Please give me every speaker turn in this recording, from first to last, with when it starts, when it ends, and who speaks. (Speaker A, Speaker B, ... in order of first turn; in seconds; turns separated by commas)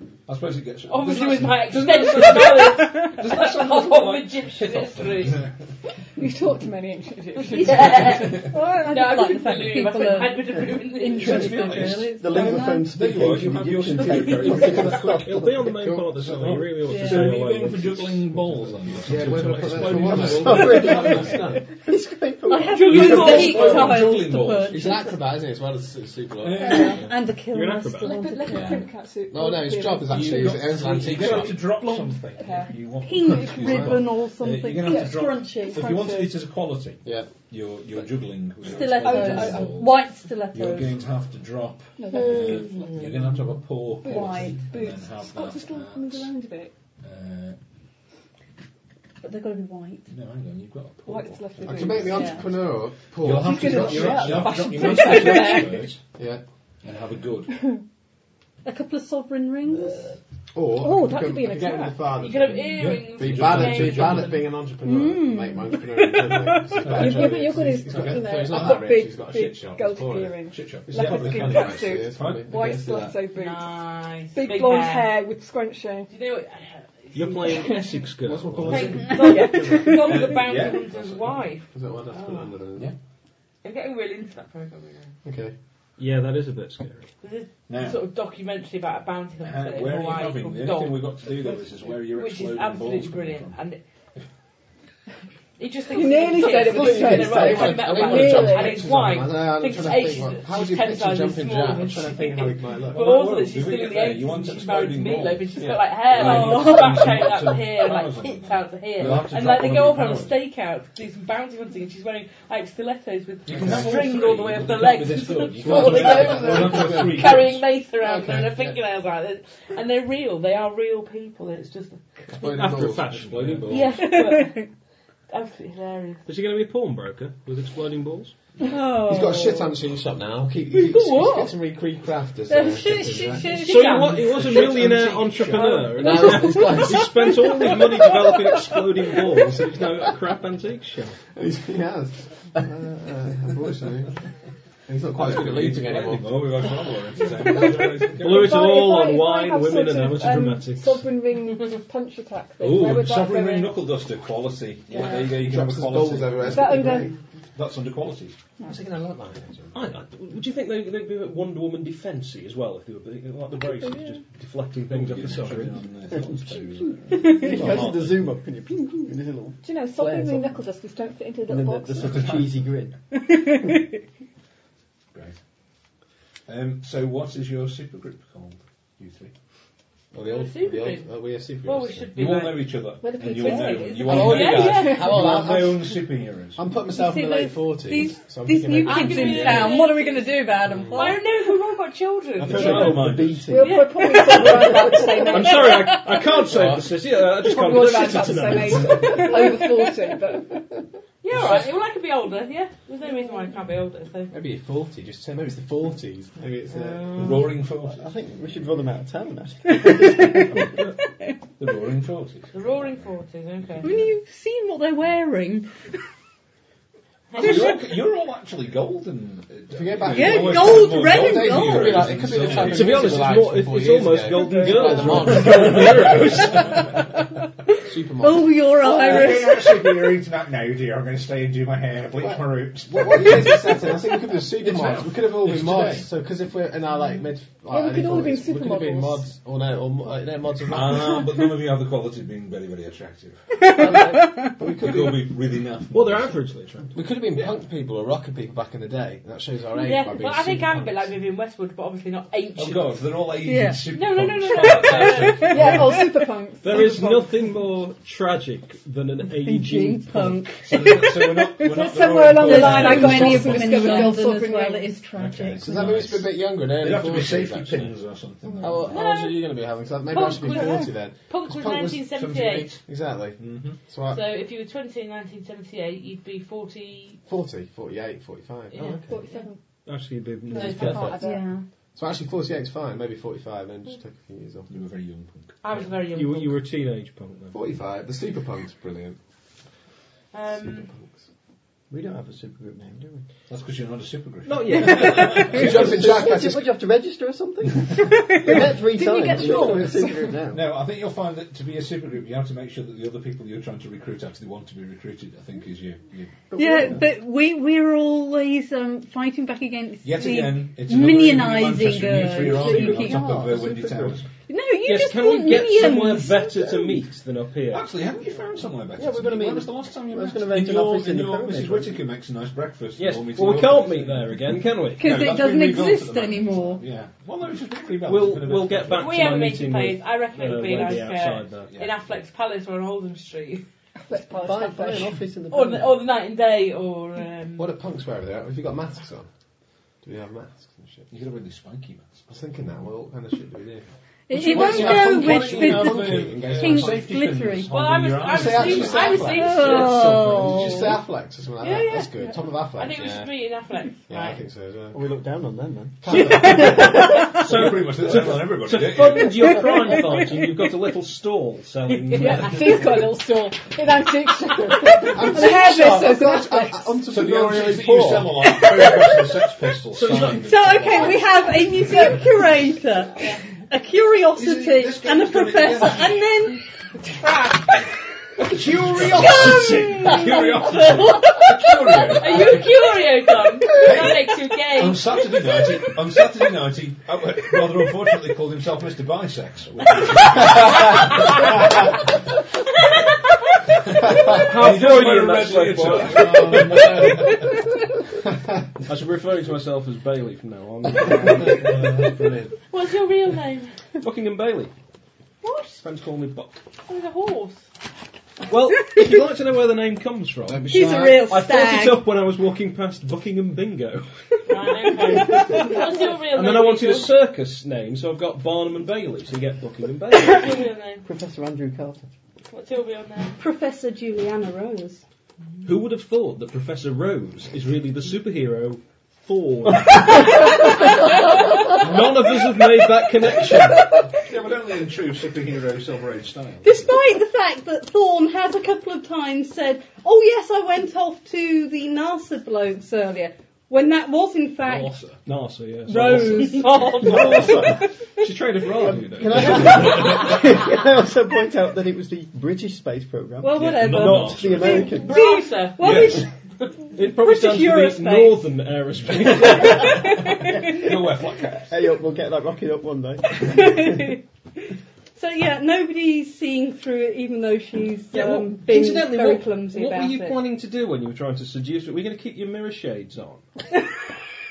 Speaker A: 0.3-5.5, Speaker B: 0.9-5.4, Speaker C: 6.2-8.8, Speaker B: 7.4-11.8, Speaker D: 7.6-12.9, Speaker A: 8.1-8.5, Speaker A: 11.2-15.5, Speaker E: 12.1-16.1, Speaker F: 14.5-18.6, Speaker A: 16.1-21.6, Speaker D: 16.8-17.4, Speaker G: 19.0-21.6, Speaker F: 19.2-20.4, Speaker E: 20.1-23.4, Speaker D: 22.5-25.2, Speaker A: 22.8-25.0, Speaker B: 23.1-23.9, Speaker G: 24.7-26.9, Speaker A: 26.4-27.1, Speaker D: 26.6-28.8, Speaker C: 26.6-27.0, Speaker F: 27.5-28.2, Speaker C: 28.0-32.8, Speaker G: 28.5-31.7, Speaker A: 30.1-46.3, Speaker D: 33.0-36.3, Speaker G: 33.6-34.0, Speaker C: 34.9-36.3, Speaker G: 37.0-37.3, Speaker D: 38.6-41.1, Speaker C: 38.9-39.9, Speaker C: 42.0-43.0, Speaker D: 42.1-42.4, Speaker C: 44.0-46.7, Speaker D: 44.1-44.6, Speaker A: 47.0-47.6, Speaker D: 49.2-50.1, Speaker A: 50.1-52.5, Speaker C: 51.0-52.5, Speaker G: 51.7-54.5, Speaker D: 52.1-52.4, Speaker A: 53.2-56.0, Speaker C: 53.2-56.0, Speaker G: 56.2-56.4, Speaker A: 56.8-57.6, Speaker D: 58.6-60.2, Speaker G: 60.5-73.1, Speaker C: 60.8-62.2, Speaker B: 62.2-64.5, Speaker A: 62.8-64.5, Speaker D: 64.8-66.8, Speaker A: 66.8-69.6, Speaker C: 66.8-76.1, Speaker A: 70.4-73.1, Speaker B: 73.3-75.2, Speaker B: 76.1-77.6, Speaker F: 77.1-78.9, Speaker C: 77.4-78.0, Speaker G: 78.2-80.0, Speaker A: 78.5-79.2, Speaker B: 78.7-82.5, Speaker C: 79.1-80.3, Speaker D: 79.1-79.4, Speaker A: 79.8-81.3, Speaker G: 81.7-82.9, Speaker B: 83.6-85.1, Speaker G: 85.2-85.5, Speaker F: 86.0-87.1, Speaker B: 87.2-91.2, Speaker A: 87.7-88.0, Speaker A: 89.4-93.6, Speaker B: 91.9-93.8, Speaker B: 95.6-122.0, Speaker C: 95.9-98.8, Speaker G: 96.7-103.2, Speaker D: 98.1-98.6, Speaker A: 102.9-110.4, Speaker D: 106.1-107.0, Speaker A: 113.5-117.6, Speaker G: 115.6-118.8, Speaker G: 122.3-123.1, Speaker F: 122.4-123.9, Speaker A: 123.1-124.0, Speaker B: 123.7-124.6, Speaker D: 123.8-124.7, Speaker B: 125.3-126.2, Speaker F: 126.3-128.3, Speaker D: 128.6-129.8, Speaker G: 129.0-133.5, Speaker B: 130.7-131.5, Speaker D: 131.0-131.5, Speaker D: 132.5-134.2, Speaker B: 133.4-134.3, Speaker F: 133.6-141.2, Speaker A: 134.1-136.1, Speaker D: 135.6-138.6, Speaker G: 136.0-137.0, Speaker G: 141.3-144.2, Speaker G: 144.9-146.7, Speaker A: 145.1-148.7, Speaker F: 148.2-151.1, Speaker C: 148.2-153.8, Speaker A: 152.6-158.4, Speaker G: 154.9-157.1, Speaker C: 156.5-157.1, Speaker G: 158.6-159.8, Speaker F: 159.7-165.8, Speaker C: 163.6-164.2, Speaker A: 164.9-168.3, Speaker D: 167.1-167.6, Speaker E: 167.2-170.6, Speaker C: 169.6-172.4, Speaker E: 171.5-173.0, Speaker A: 172.1-172.6, Speaker A: 176.5-179.3, Speaker G: 180.1-182.1, Speaker B: 180.2-181.1, Speaker B: 181.6-185.2, Speaker A: 182.1-186.6, Speaker C: 183.0-185.2, Speaker G: 184.1-189.8, Speaker D: 186.8-191.7, Speaker B: 188.8-194.7, Speaker G: 190.7-191.1, Speaker A: 192.4-193.5, Speaker E: 192.5-193.9, Speaker C: 193.4-196.0, Speaker D: 194.0-196.2, Speaker F: 195.3-199.3, Speaker G: 196.5-197.0, Speaker C: 197.3-200.6, Speaker B: 201.2-204.3, Speaker G: 204.3-207.6, Speaker B: 206.7-207.2, Speaker A: 207.1-208.1, Speaker E: 207.9-210.7, Speaker D: 209.7-211.3, Speaker A: 210.5-210.9, Speaker A: 211.6-213.1, Speaker B: 212.5-213.9, Speaker A: 213.7-214.1, Speaker D: 213.8-215.7, Speaker B: 217.3-217.9, Speaker A: 217.3-223.3, Speaker G: 219.7-226.5, Speaker D: 220.1-222.2, Speaker F: 222.7-226.8, Speaker D: 224.4-227.4, Speaker A: 225.3-226.6, Speaker G: 227.9-229.3, Speaker D: 228.1-230.2, Speaker A: 228.8-236.1, Speaker G: 232.2-241.4, Speaker C: 237.7-239.3, Speaker A: 240.6-243.4, Speaker D: 243.6-244.7, Speaker G: 243.8-245.1, Speaker A: 244.8-246.4, Speaker F: 245.9-246.9, Speaker G: 246.9-251.1, Speaker B: 249.7-253.1, Speaker A: 252.6-255.8, Speaker D: 253.4-253.9, Speaker B: 253.9-255.9, Speaker D: 255.1-256.2, Speaker C: 255.4-257.4, Speaker F: 256.6-260.4, Speaker D: 259.3-266.1, Speaker A: 260.6-264.1, Speaker C: 261.6-265.0, Speaker A: 265.2-269.0, Speaker G: 265.6-268.0, Speaker G: 268.6-274.2, Speaker B: 268.9-269.5, Speaker B: 270.1-272.7, Speaker D: 270.4-270.9, Speaker A: 272.1-272.8, Speaker A: 273.4-273.8, Speaker B: 274.1-277.2, Speaker G: 277.3-279.2, Speaker B: 278.7-279.4, Speaker C: 279.1-279.6, Speaker F: 279.9-281.2, Speaker C: 280.5-281.5, Speaker B: 280.5-281.1, Speaker G: 280.8-281.2, Speaker D: 281.0-281.6, Speaker G: 282.0-284.7, Speaker A: 284.7-285.9, Speaker B: 285.6-286.6, Speaker F: 286.1-287.6, Speaker G: 287.5-289.2, Speaker B: 290.3-290.9, Speaker G: 290.5-291.2, Speaker E: 291.9-293.2, Speaker A: 293.5-296.1, Speaker F: 294.4-295.7, Speaker D: 294.8-295.5, Speaker G: 295.4-296.7, Speaker E: 295.6-300.6, Speaker D: 298.0-300.3, Speaker C: 299.2-300.2, Speaker A: 300.5-306.5, Speaker E: 306.5-307.0, Speaker D: 306.5-313.5, Speaker A: 310.0-314.3, Speaker E: 312.5-314.2, Speaker D: 314.5-317.0, Speaker F: 314.8-317.9, Speaker A: 317.7-329.4, Speaker E: 318.9-322.0, Speaker F: 323.0-325.1, Speaker D: 325.0-326.8, Speaker F: 328.1-331.7, Speaker B: 328.9-333.6, Speaker A: 331.7-331.9, Speaker C: 334.0-335.2, Speaker E: 334.3-336.0, Speaker B: 335.5-337.7, Speaker G: 337.6-339.3, Speaker G: 340.0-341.1, Speaker A: 341.1-342.2, Speaker G: 342.3-343.9, Speaker D: 344.3-347.7, Speaker A: 344.3-349.4, Speaker G: 344.5-347.0, Speaker B: 347.7-350.1, Speaker G: 348.3-353.3, Speaker D: 349.3-351.0, Speaker B: 351.6-354.4, Speaker G: 354.1-355.0, Speaker E: 354.9-356.3, Speaker G: 356.0-357.1, Speaker F: 356.1-362.9, Speaker A: 356.4-359.4, Speaker D: 356.8-357.2, Speaker C: 362.1-366.9, Speaker G: 365.1-368.5, Speaker A: 367.1-371.6, Speaker D: 368.4-369.4, Speaker F: 369.9-370.4, Speaker D: 370.1-376.6, Speaker A: 374.4-376.3, Speaker D: 377.2-377.7, Speaker A: 378.4-382.7, Speaker D: 378.6-382.2, Speaker F: 379.5-380.3, Speaker B: 382.1-385.1, Speaker A: 383.7-391.4, Speaker A: 393.9-397.5, Speaker F: 394.3-396.9, Speaker G: 396.1-397.5, Speaker F: 398.9-402.3, Speaker A: 401.2-402.5, Speaker B: 402.7-403.8, Speaker F: 404.0-404.7, Speaker B: 405.4-405.8, Speaker F: 405.8-406.6, Speaker B: 406.9-407.6, Speaker F: 408.5-420.5, Speaker G: 410.4-411.2, Speaker D: 410.7-412.0, Speaker B: 414.5-417.1, Speaker B: 420.1-421.0, Speaker E: 421.0-422.0, Speaker B: 422.5-423.4, Speaker D: 423.4-425.0, Speaker F: 425.6-430.6, Speaker F: 431.6-433.8, Speaker A: 434.1-436.9, Speaker D: 436.6-445.0, Speaker A: 444.6-445.2, Speaker F: 445.2-450.1, Speaker D: 445.9-447.8, Speaker B: 446.5-447.7, Speaker E: 448.8-455.2, Speaker D: 453.4-456.3, Speaker A: 453.5-454.9, Speaker F: 454.0-454.4, Speaker B: 454.9-456.7, Speaker A: 455.8-456.2, Speaker D: 456.9-458.5, Speaker F: 456.9-460.1, Speaker D: 459.5-460.7, Speaker A: 459.8-461.8, Speaker E: 461.6-463.9, Speaker D: 463.3-464.2, Speaker D: 465.2-470.4, Speaker F: 468.1-473.4